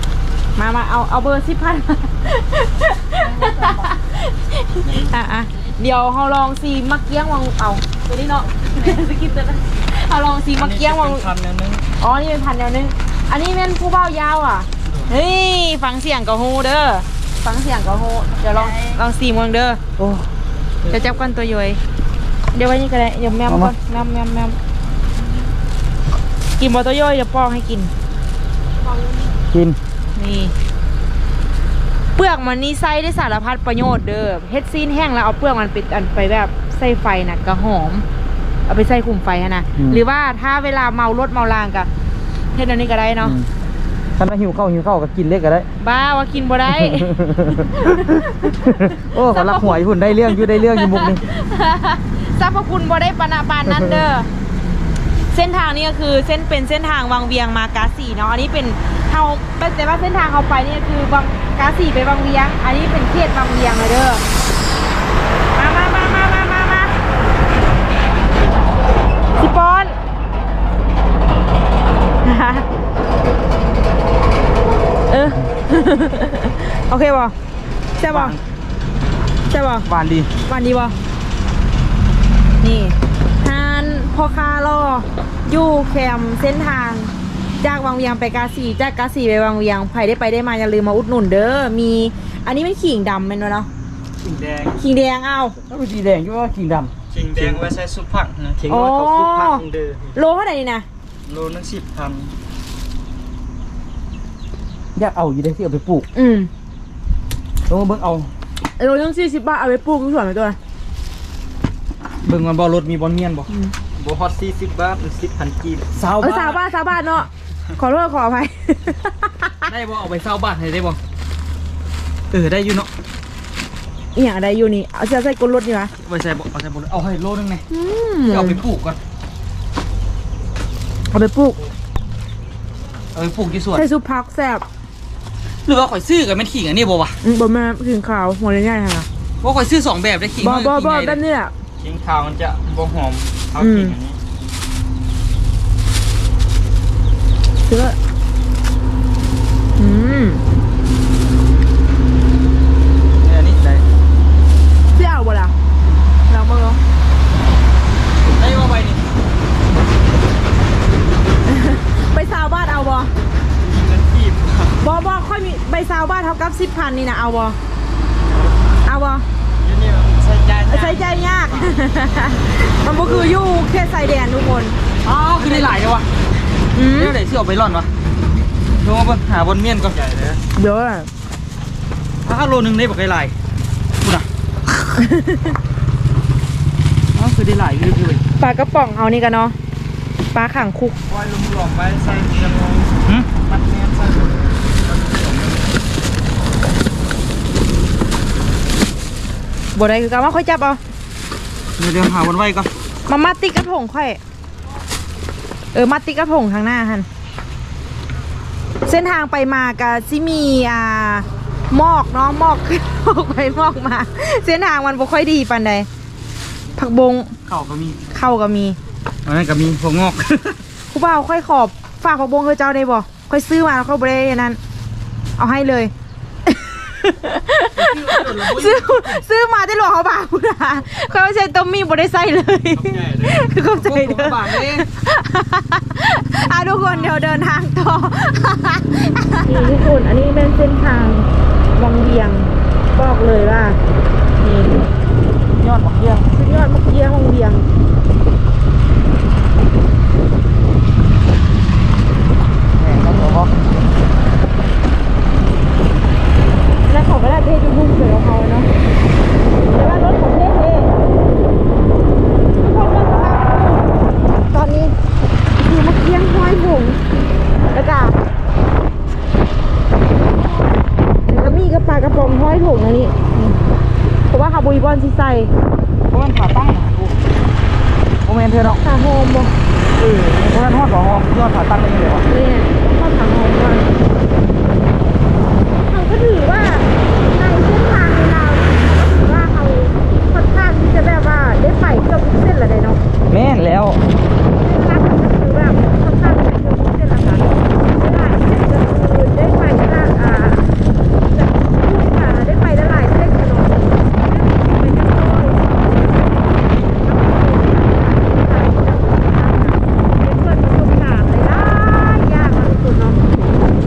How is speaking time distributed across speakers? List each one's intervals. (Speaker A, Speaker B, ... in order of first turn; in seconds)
Speaker A: 0.6-11.3, 12.0-19.8, 20.9-21.8, 22.5-24.6, 26.6-27.9, 28.9-29.2, 30.1-30.5, 32.1-38.0, 38.7-41.9, 42.5-43.4, 45.8-54.3, 55.3-64.2, 65.5-66.9, 69.4-70.0, 72.2-72.7, 75.1-77.3, 78.0-78.4, 79.5-79.9, 80.5-81.0, 82.6-93.7, 94.8-95.6, 98.7-99.6, 100.1-100.9, 106.1-106.5, 108.8-110.6, 113.5-113.7, 116.2-119.7, 124.1-125.9, 127.7-128.6, 131.1-131.6, 133.7-134.7, 137.2-139.1, 140.4-141.5, 143.6-143.9, 147.7-148.0, 149.8-150.4, 154.9-155.5, 156.3-156.8, 161.5-163.1, 164.8-167.6, 168.8-169.2, 170.7-174.8, 176.7-177.2, 180.6-181.1, 185.0-185.6, 188.4-189.6, 190.3-190.9, 199.7-200.8, 203.1-204.2, 205.7-207.1, 208.8-215.9, 216.8-217.3, 218.1-218.8, 220.9-224.6, 225.4-225.9, 226.5-243.8, 244.4-244.9, 246.3-247.7, 256.9-258.7, 259.7-260.9, 262.6-263.9, 264.5-264.9, 265.6-267.0, 267.7-268.1, 271.3-273.6, 274.3-275.5, 278.6-280.4, 282.3-283.9, 285.8-293.0, 294.5-306.1, 306.9-313.7
Speaker B: 10.6-11.9, 14.8-15.1, 20.8-21.2, 94.2-94.8, 97.1-100.2, 101.2-102.3, 114.0-116.0, 141.8-144.2, 163.6-164.7, 169.6-171.8, 179.9-180.4, 191.1-195.6, 232.7-233.5
Speaker C: 20.0-20.3, 23.4-23.7, 29.5-29.8, 43.2-43.5, 44.2-45.7, 46.7-51.2, 53.7-54.0, 78.0-78.4, 79.8-80.3, 95.7-97.7, 104.9-106.1, 107.7-108.3, 112.2-113.5, 115.9-116.6, 119.7-121.0, 122.3-122.9, 126.0-127.6, 128.2-129.0, 133.1-133.8, 135.6-137.2, 139.4-141.2, 153.2-153.8, 158.3-159.0, 175.0-176.1, 176.9-177.9, 178.8-180.0, 182.2-183.3, 184.0-184.3, 187.1-188.2, 193.0-193.3, 201.8-202.7, 217.5-218.0, 219.2-220.6, 227.8-229.2, 233.7-234.9, 245.6-246.3, 252.8-253.5, 276.1-277.1, 278.2-278.8, 280.4-282.2, 293.3-294.0